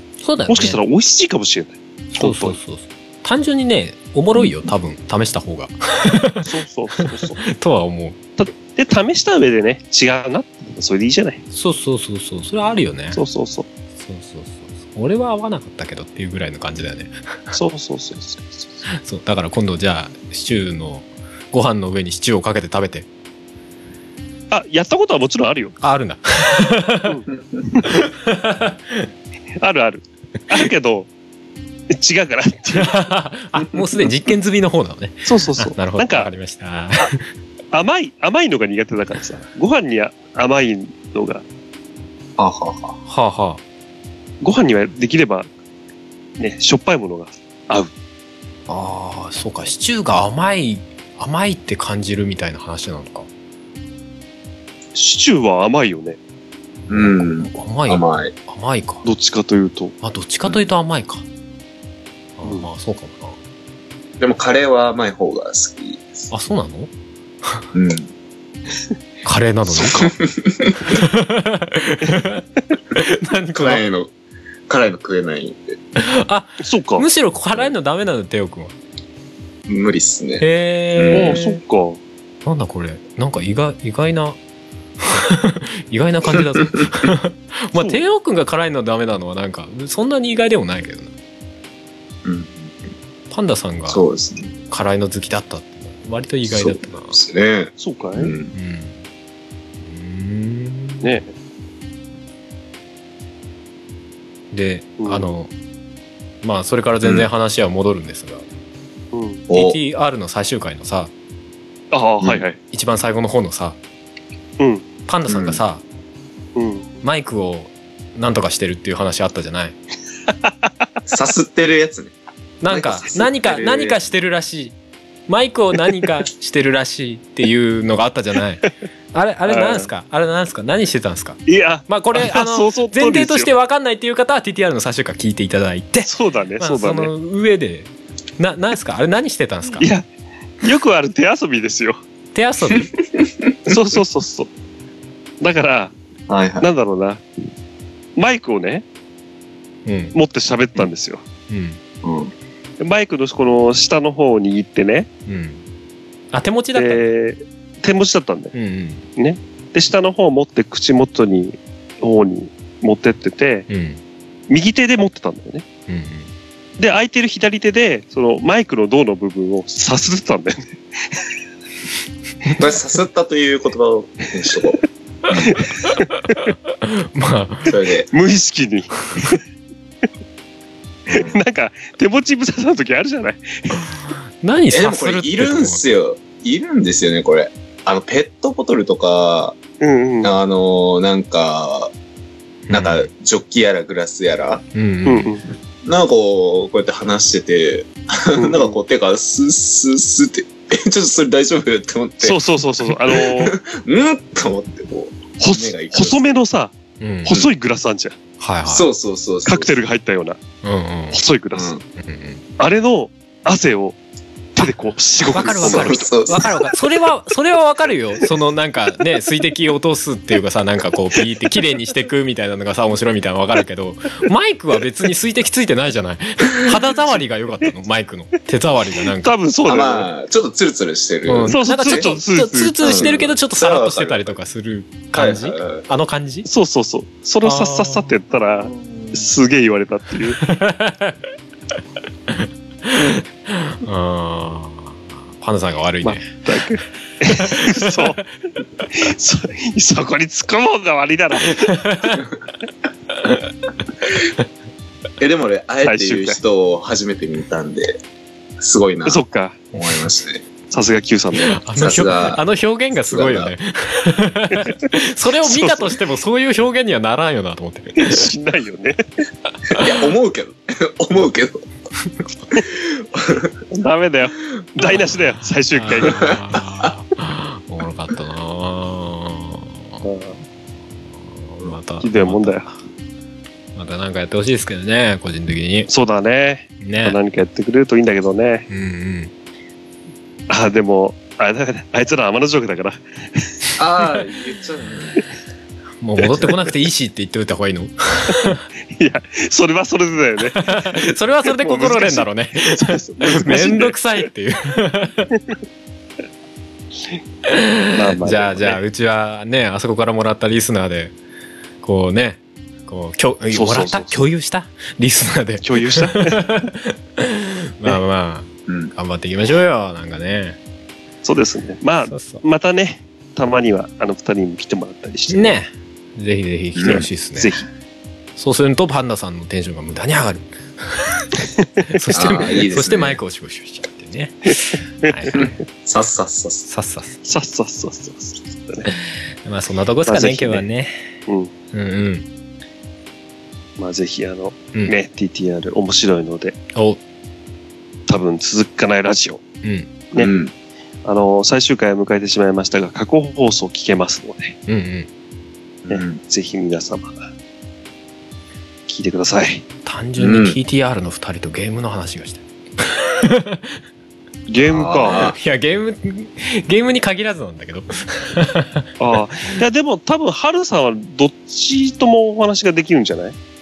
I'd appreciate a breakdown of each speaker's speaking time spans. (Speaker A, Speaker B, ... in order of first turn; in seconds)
Speaker A: 0.2-0.8, 2.2-6.5, 7.1-8.2, 11.5-13.2, 14.0-17.6, 18.9-23.1, 25.8-27.2, 27.8-29.1, 32.8-37.2, 43.1-43.6, 48.7-53.3, 56.9-59.0, 60.0-61.2, 62.4-63.4, 66.3-66.9, 69.2-70.1, 70.9-73.8, 76.0-78.7, 80.4-81.6, 82.4-84.4, 85.0-91.1, 93.3-94.0, 94.7-97.2, 98.5-99.0, 99.8-101.1, 104.5-105.5, 106.4-108.5, 109.5-111.1, 112.7-113.8, 115.1-115.8, 117.0-119.8, 122.6-124.8, 125.3-139.9, 142.3-142.9, 149.9-150.2, 151.5-151.8, 155.3-155.6, 156.3-157.0, 158.5-159.1, 163.7-164.0, 165.9-166.3, 176.7-177.8, 184.4-185.8, 192.7-193.1, 194.7-195.3, 207.0-207.3, 208.4-208.9, 210.6-211.2, 212.0-212.4, 215.3-229.3, 231.3-236.5, 237.4-238.2, 240.4-241.2, 242.3-246.3, 247.3-248.1, 251.6-252.2, 253.2-253.4, 261.4-268.3, 275.8-280.1, 281.3-282.8, 283.8-285.9, 286.8-287.2, 288.7-289.3, 296.0-298.6, 300.6-305.4, 307.5-311.1, 311.8-320.6, 322.1-322.4, 325.3-327.6, 328.4-331.4, 331.9-335.6, 336.7-337.2, 339.1-341.1, 341.7-342.3, 346.7-347.0, 349.6-349.9, 354.7-355.1, 359.9-363.8, 365.1-368.9
Speaker B: 0.5-2.6, 6.4-7.4, 8.4-11.4, 13.1-13.7, 17.5-18.9, 24.5-25.8, 27.0-27.9, 29.6-31.1, 31.9-33.1, 35.3-36.3, 37.7-41.4, 44.4-45.5, 46.4-47.9, 55.0-56.2, 59.0-59.9, 62.4-62.7, 76.6-77.1, 81.1-82.0, 87.8-88.0, 97.8-98.3, 101.0-101.3, 105.0-105.3, 109.1-109.5, 111.9-112.6, 114.6-114.8, 116.6-116.9, 129.5-129.9, 131.5-133.5, 136.0-137.1, 139.7-140.1, 140.6-142.0, 143.7-144.5, 145.4-145.9, 146.6-147.2, 148.2-148.8, 150.1-151.2, 152.8-155.1, 156.8-158.5, 159.2-163.7, 164.5-165.7, 166.8-171.3, 175.4-176.5, 178.1-179.4, 181.1-183.8, 189.8-190.3, 195.1-195.5, 198.4-198.8, 202.2-203.6, 205.4-208.2, 209.5-210.4, 211.1-211.8, 212.6-214.0, 214.6-216.2, 229.2-230.1, 231.5-233.2, 236.5-240.4, 246.0-248.2, 248.9-251.9, 255.8-256.4, 259.1-259.6, 260.7-261.6, 265.4-266.0, 268.0-269.0, 273.7-276.4, 280.0-280.4, 282.0-282.8, 285.9-288.7, 290.5-293.4, 298.3-304.3, 307.9-308.8, 313.5-314.3, 315.6-316.4, 321.2-325.6, 326.9-327.7, 331.6-332.8, 334.7-335.6, 337.2-338.9, 340.1-340.6, 343.8-346.6, 348.1-349.4, 351.1-354.6, 355.9-357.3, 358.9-359.6, 364.5-365.3, 369.0-373.4
Speaker C: 42.4-43.0, 56.9-58.3, 64.2-66.3, 67.7-68.1, 69.8-70.9, 73.5-74.1, 74.7-75.8, 79.7-81.4, 92.2-92.8, 93.9-94.6, 96.5-98.5, 109.5-109.8, 115.3-115.6, 121.1-122.1, 122.7-124.0, 146.3-146.7, 152.0-152.3, 172.5-175.6, 177.7-178.1, 181.1-181.4, 184.7-189.6, 190.2-191.9, 192.7-194.7, 195.8-206.2, 208.7-209.8, 211.5-211.8, 215.3-216.7, 229.7-232.1, 232.8-234.3, 235.1-235.9, 238.6-239.2, 255.2-258.0, 258.6-259.2, 259.7-260.4, 261.8-262.4, 263.1-263.5, 269.7-271.6, 272.6-273.6, 276.1-276.4, 293.8-295.2, 326.8-327.1, 332.1-333.2, 335.4-336.7, 350.2-350.5, 355.9-356.2, 360.2-360.6, 364.6-365.4